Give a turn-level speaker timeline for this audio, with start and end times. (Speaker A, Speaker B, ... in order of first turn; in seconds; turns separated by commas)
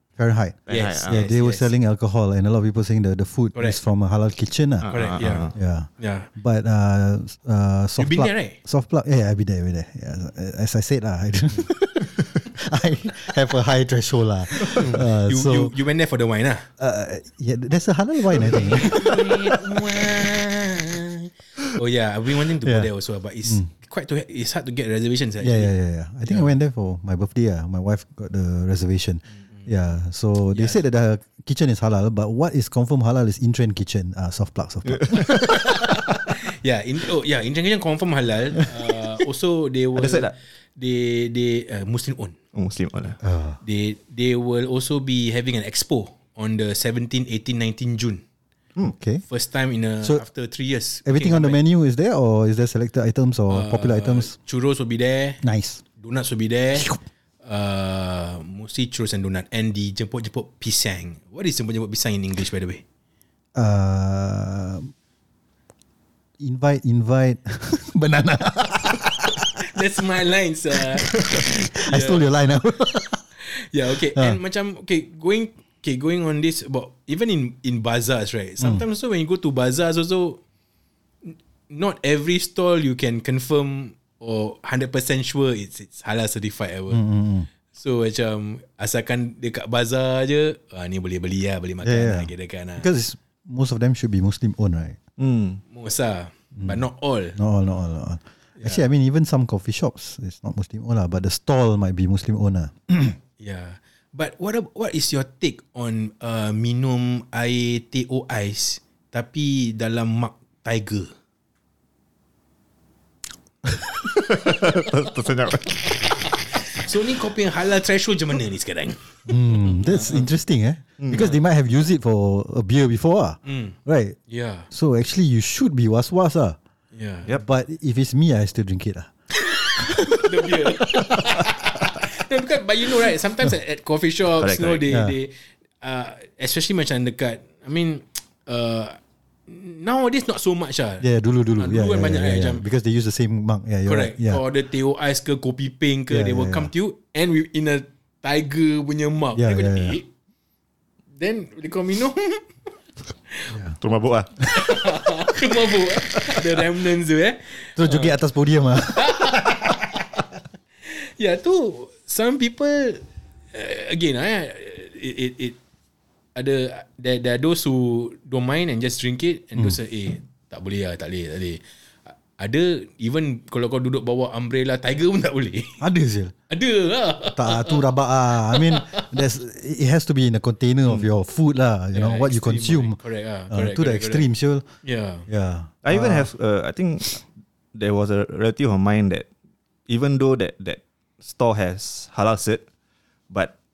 Speaker A: 0.2-15.7, Speaker B: 0.7-1.2, Speaker C: 0.7-1.7, Speaker B: 4.8-5.5, Speaker C: 4.9-6.3, Speaker C: 8.0-8.6, Speaker C: 14.7-16.7, Speaker A: 16.8-19.3, Speaker C: 18.4-25.7, Speaker A: 22.6-22.9, Speaker A: 25.4-35.6, Speaker C: 26.2-26.5, Speaker C: 30.5-30.8, Speaker B: 34.9-35.2, Speaker C: 35.4-42.4, Speaker B: 40.0-40.3, Speaker B: 42.5-43.2, Speaker A: 43.2-43.6, Speaker C: 43.6-48.2, Speaker A: 48.8-49.2, Speaker C: 49.3-51.6, Speaker A: 51.0-54.4, Speaker C: 53.5-55.4, Speaker A: 55.4-55.8, Speaker C: 56.0-62.8, Speaker A: 63.5-64.9, Speaker A: 66.4-69.6, Speaker C: 69.6-72.2, Speaker A: 71.1-73.2, Speaker C: 73.4-80.4, Speaker A: 74.1-74.4, Speaker C: 81.2-87.0, Speaker A: 86.9-87.5, Speaker C: 87.7-92.9, Speaker A: 91.8-95.0, Speaker B: 95.2-95.6, Speaker C: 95.7-97.4, Speaker A: 96.6-96.8, Speaker A: 97.3-103.2, Speaker C: 103.4-111.1, Speaker B: 114.1-116.1, Speaker C: 116.8-120.3, Speaker A: 119.3-124.2, Speaker B: 121.0-121.3, Speaker C: 123.5-123.8, Speaker C: 124.3-124.7, Speaker A: 124.7-126.6, Speaker C: 126.9-127.3, Speaker A: 127.4-129.1, Speaker A: 129.8-130.2, Speaker C: 129.8-141.1, Speaker B: 134.4-134.8, Speaker A: 134.9-135.2, Speaker A: 141.0-144.4, Speaker C: 141.6-142.6, Speaker C: 143.9-150.1, Speaker A: 146.1-146.7, Speaker A: 149.3-150.0, Speaker C: 151.2-152.5, Speaker B: 153.8-154.7, Speaker C: 154.5-158.1, Speaker A: 157.8-159.7, Speaker C: 158.9-160.0, Speaker C: 160.8-165.6, Speaker C: 166.3-175.8, Speaker A: 175.8-176.3, Speaker C: 176.5-177.8, Speaker A: 177.3-183.0, Speaker C: 178.5-179.1, Speaker C: 181.9-184.3, Speaker A: 183.5-184.7, Speaker C: 184.8-185.3, Speaker A: 185.3-186.3, Speaker B: 185.8-189.3, Speaker B: 189.9-192.6